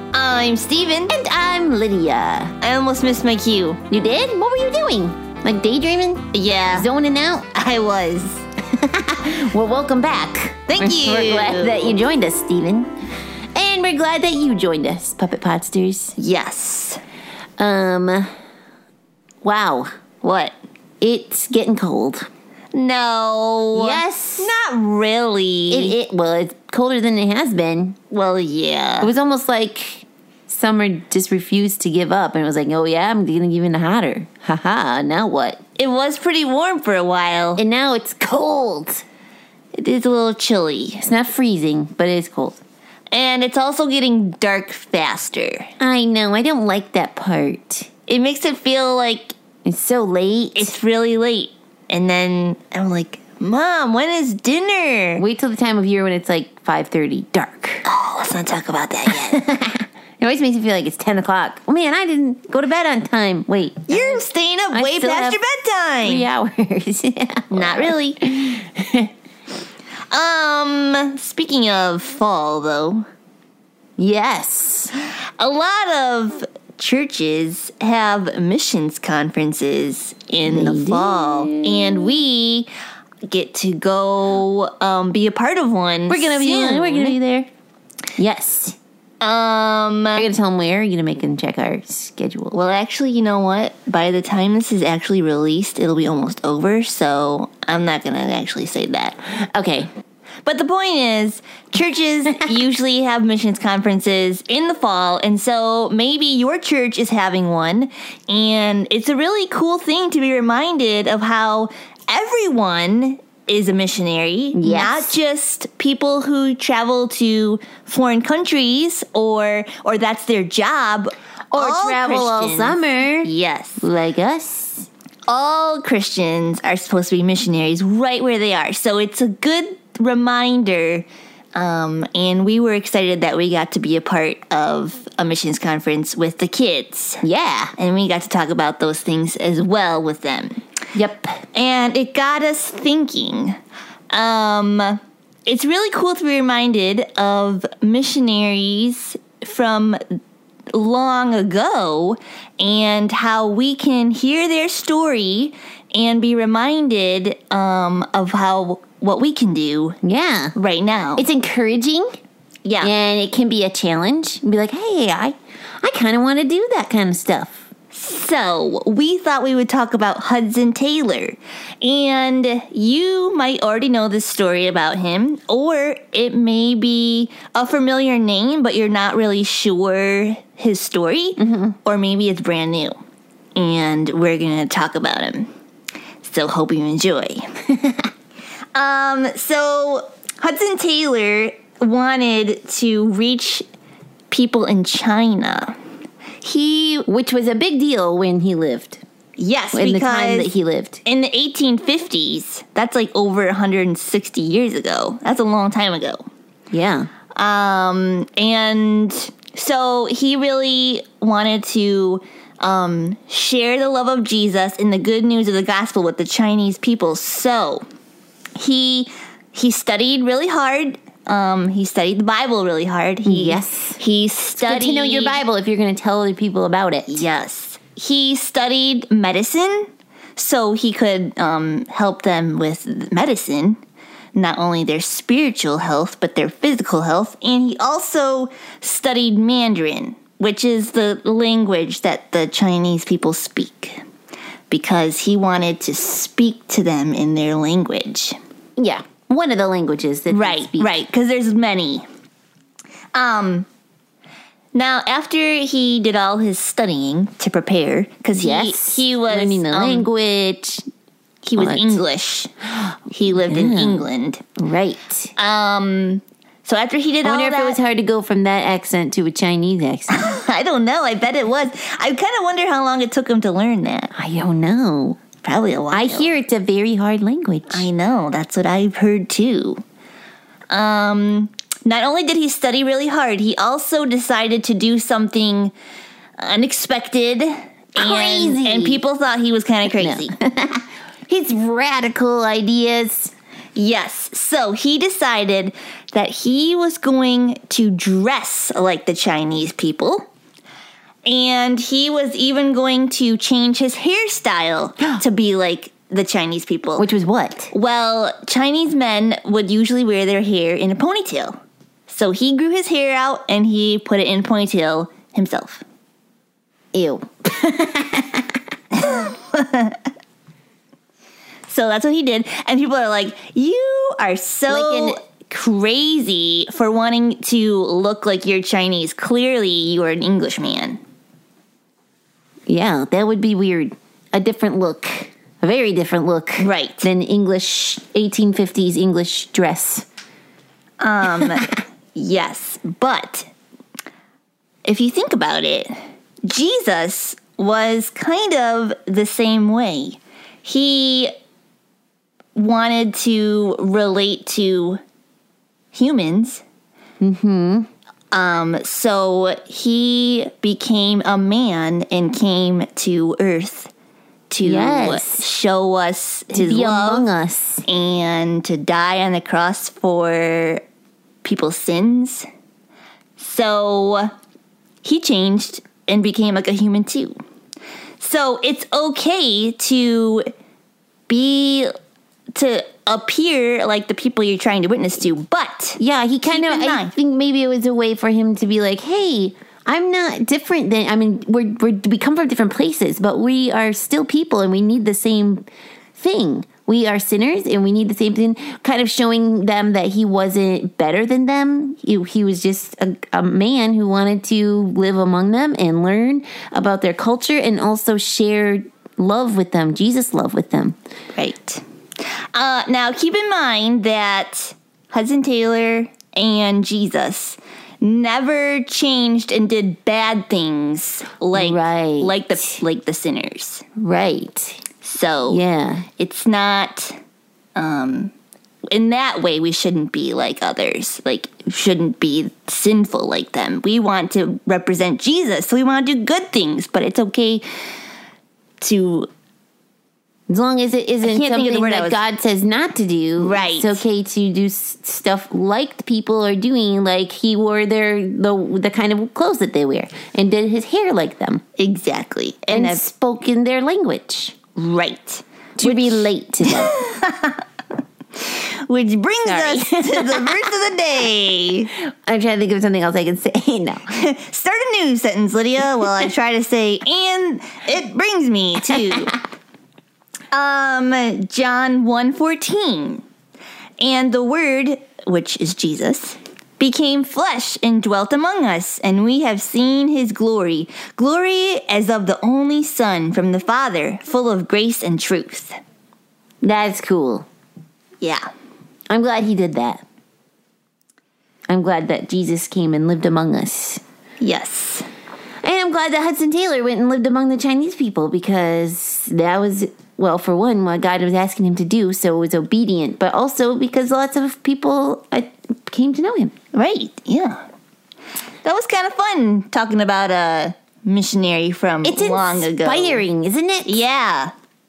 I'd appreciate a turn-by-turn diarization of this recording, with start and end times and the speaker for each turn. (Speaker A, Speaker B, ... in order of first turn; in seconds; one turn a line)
Speaker A: 0.1-1.1
Speaker B: 1.1-2.5
Speaker A: 2.6-3.8
Speaker B: 3.9-7.5
Speaker A: 6.3-6.9
Speaker A: 7.5-8.4
Speaker B: 8.7-12.9
Speaker A: 10.7-12.0
Speaker B: 13.5-16.1
Speaker A: 16.2-17.0
Speaker B: 17.6-18.3
Speaker B: 19.4-19.9
Speaker A: 20.2-20.6
Speaker B: 21.0-22.3
Speaker A: 22.7-26.0
Speaker B: 23.7-24.5
Speaker B: 25.7-28.0
Speaker A: 28.1-29.1
Speaker B: 29.0-35.6
Speaker A: 35.8-37.6
Speaker B: 37.6-39.0
Speaker A: 39.8-41.0
Speaker B: 41.0-42.6
Speaker A: 43.1-45.7
Speaker B: 45.8-47.9
Speaker A: 48.1-49.3
Speaker B: 49.6-50.7
Speaker A: 50.5-55.2
Speaker B: 55.2-57.9
Speaker A: 57.9-59.4
Speaker B: 59.3-65.4
Speaker A: 63.9-66.3
Speaker B: 66.0-69.1
Speaker A: 67.5-68.2
Speaker A: 70.1-73.0
Speaker B: 74.0-74.9
Speaker A: 75.4-82.7
Speaker B: 80.5-82.2
Speaker A: 83.3-87.2
Speaker B: 86.1-87.5
Speaker B: 88.2-88.8
Speaker A: 89.2-90.3
Speaker B: 90.2-92.6
Speaker A: 92.5-99.2
Speaker B: 99.5-99.9
Speaker A: 100.5-123.8
Speaker B: 114.5-115.1
Speaker B: 121.5-124.9
Speaker A: 125.3-137.2
Speaker B: 137.2-137.7
Speaker A: 137.8-140.6
Speaker B: 140.9-141.4
Speaker A: 141.5-143.6
Speaker A: 144.1-150.0
Speaker A: 150.7-160.0
Speaker B: 160.0-160.6
Speaker A: 160.6-161.2
Speaker B: 161.2-162.2
Speaker A: 162.7-162.9
Speaker B: 162.8-167.7
Speaker A: 167.9-182.9
Speaker B: 181.4-181.8
Speaker A: 183.6-185.5
Speaker A: 186.2-187.5
Speaker A: 188.8-193.6
Speaker A: 194.3-195.7
Speaker A: 196.4-197.1
Speaker B: 197.1-199.0
Speaker A: 199.4-200.5
Speaker B: 199.7-201.0
Speaker A: 201.1-206.2
Speaker B: 206.7-207.1
Speaker A: 207.4-217.8
Speaker A: 218.6-225.4
Speaker B: 223.2-224.0
Speaker B: 224.6-227.2
Speaker A: 227.1-233.8
Speaker A: 234.3-244.0
Speaker A: 244.7-248.4
Speaker B: 248.8-250.9
Speaker A: 250.3-252.0
Speaker A: 253.1-253.7
Speaker A: 254.7-260.1
Speaker B: 258.3-260.8
Speaker A: 261.4-262.5
Speaker B: 261.6-262.0
Speaker A: 263.1-264.4
Speaker B: 263.5-264.1
Speaker B: 264.6-265.3
Speaker A: 265.4-267.8
Speaker B: 267.2-270.3
Speaker A: 270.1-274.1
Speaker B: 274.1-275.2
Speaker A: 275.4-276.3
Speaker B: 275.9-277.9
Speaker A: 277.7-279.8
Speaker A: 280.7-285.7
Speaker A: 286.4-290.3
Speaker B: 288.0-289.0
Speaker B: 289.9-293.3
Speaker A: 293.8-300.3
Speaker A: 301.2-307.1
Speaker B: 307.0-307.7
Speaker A: 307.7-311.6
Speaker A: 312.1-315.8
Speaker B: 316.9-318.4
Speaker A: 318.9-320.0
Speaker A: 321.7-331.0
Speaker B: 324.7-325.2
Speaker B: 332.7-340.1
Speaker A: 336.6-337.1
Speaker A: 341.0-343.5
Speaker A: 344.9-345.9
Speaker A: 346.5-351.3
Speaker A: 352.6-355.0
Speaker A: 355.9-356.6
Speaker B: 357.2-357.9
Speaker A: 358.3-363.9
Speaker A: 364.5-367.3
Speaker B: 364.6-365.5
Speaker B: 366.5-367.9
Speaker A: 367.9-370.8
Speaker A: 371.4-372.4
Speaker A: 373.4-374.3
Speaker A: 375.0-377.3
Speaker A: 378.2-380.5
Speaker A: 381.3-381.9
Speaker A: 382.6-387.1
Speaker B: 386.0-410.9
Speaker A: 411.4-411.8
Speaker A: 412.5-423.8
Speaker B: 421.5-422.8
Speaker B: 424.0-424.8
Speaker A: 425.0-425.6
Speaker B: 425.5-426.1
Speaker A: 426.2-427.2
Speaker A: 427.8-428.3
Speaker A: 428.9-437.6
Speaker A: 438.8-439.3
Speaker B: 440.5-451.6
Speaker A: 441.2-442.2
Speaker A: 443.4-444.0
Speaker A: 451.8-453.0
Speaker B: 452.7-454.6
Speaker A: 454.8-457.6
Speaker B: 455.8-457.0
Speaker A: 458.5-461.9
Speaker B: 459.4-460.6
Speaker B: 462.3-464.1
Speaker A: 464.1-469.4
Speaker A: 470.5-473.2
Speaker A: 474.0-485.8
Speaker B: 486.6-487.5
Speaker B: 489.1-490.0
Speaker B: 491.7-494.0
Speaker A: 494.4-495.1
Speaker B: 495.6-506.5
Speaker A: 506.7-507.6
Speaker A: 508.6-513.2
Speaker B: 512.0-514.0
Speaker A: 513.9-514.5